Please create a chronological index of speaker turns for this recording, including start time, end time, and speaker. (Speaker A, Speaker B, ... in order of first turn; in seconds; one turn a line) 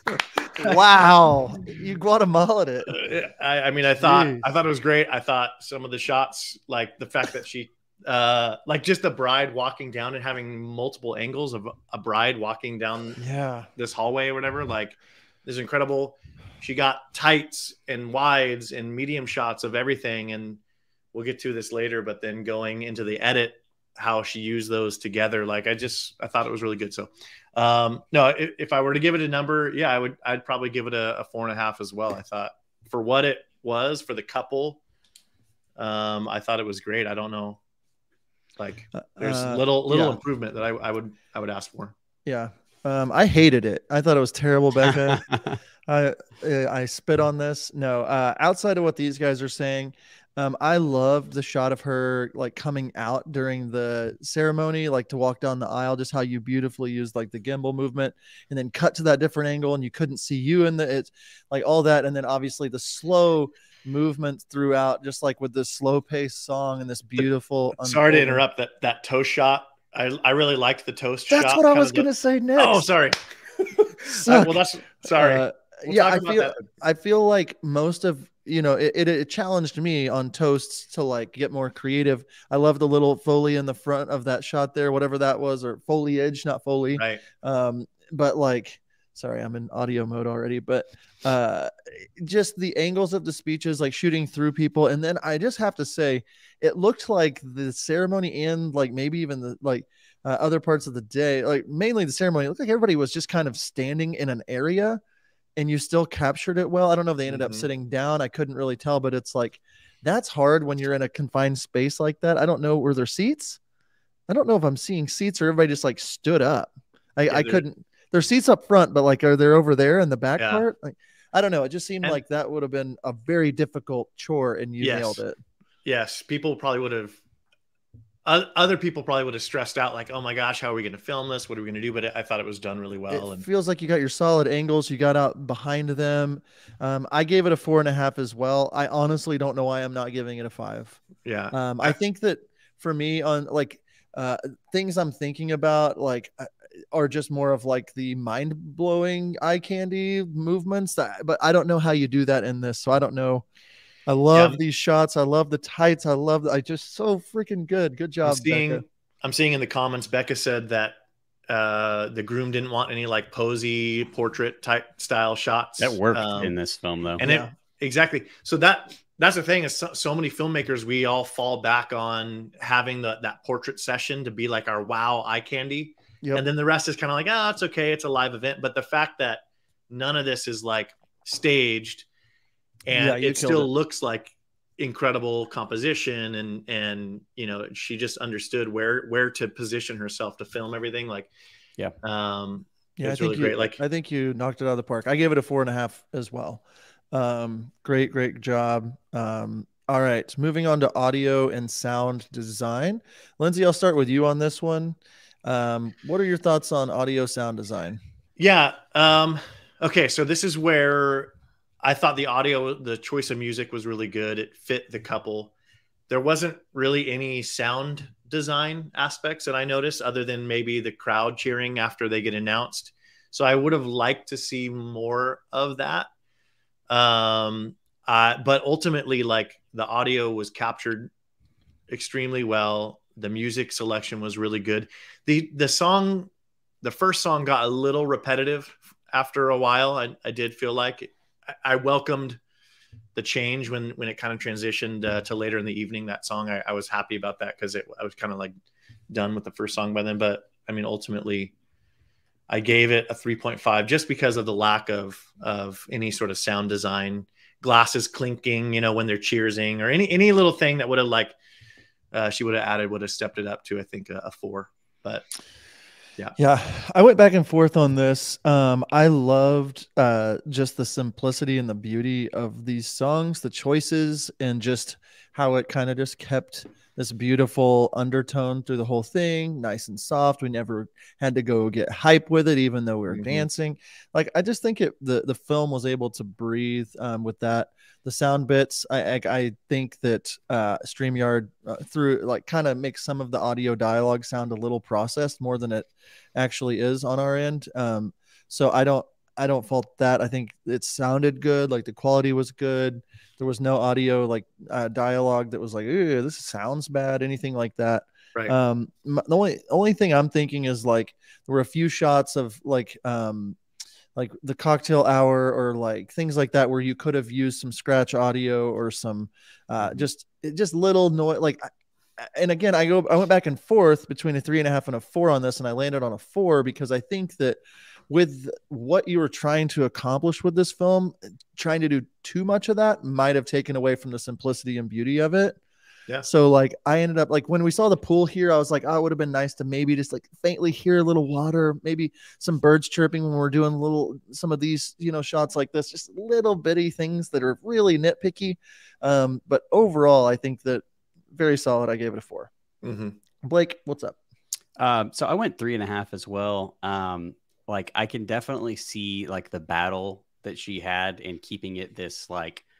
Speaker A: 0.6-3.0
Speaker B: 2.9-13.2
Speaker A: 4.0-4.4
Speaker A: 13.2-13.7
Speaker B: 13.8-20.6
Speaker B: 21.1-34.8
Speaker B: 35.8-37.6
Speaker B: 38.6-41.9
Speaker A: 38.9-40.2
Speaker A: 42.3-45.2
Speaker A: 45.9-68.4
Speaker B: 67.8-73.2
Speaker A: 71.3-72.8
Speaker B: 74.1-76.6
Speaker A: 74.2-105.0
Speaker B: 87.0-87.2
Speaker A: 105.6-113.6
Speaker B: 107.3-107.7
Speaker A: 114.3-125.4
Speaker B: 117.3-117.6
Speaker B: 120.4-120.7
Speaker B: 124.8-125.2
Speaker B: 125.8-127.2
Speaker B: 128.2-133.5
Speaker A: 133.1-141.0
Speaker B: 141.2-142.0
Speaker A: 141.5-153.4
Speaker A: 154.1-158.8
Speaker B: 154.3-154.6
Speaker B: 158.2-161.0
Speaker B: 161.5-166.5
Speaker C: 165.8-167.2
Speaker B: 167.2-182.1
Speaker A: 167.2-167.5
Speaker A: 176.2-176.5
Speaker B: 182.9-191.3
Speaker A: 182.9-183.7
Speaker B: 192.0-193.8
Speaker A: 193.0-208.0
Speaker B: 208.4-215.5
Speaker B: 216.1-226.1
Speaker B: 226.9-231.1
Speaker B: 231.9-236.3
Speaker B: 236.8-242.4
Speaker B: 243.2-248.5
Speaker B: 249.1-251.5
Speaker B: 252.5-261.4
Speaker B: 262.1-265.3
Speaker A: 266.4-313.6
Speaker B: 283.1-283.4
Speaker A: 314.2-327.6
Speaker A: 328.1-335.6
Speaker A: 336.2-352.5
Speaker B: 352.8-353.2
Speaker A: 353.4-354.2
Speaker C: 354.8-362.6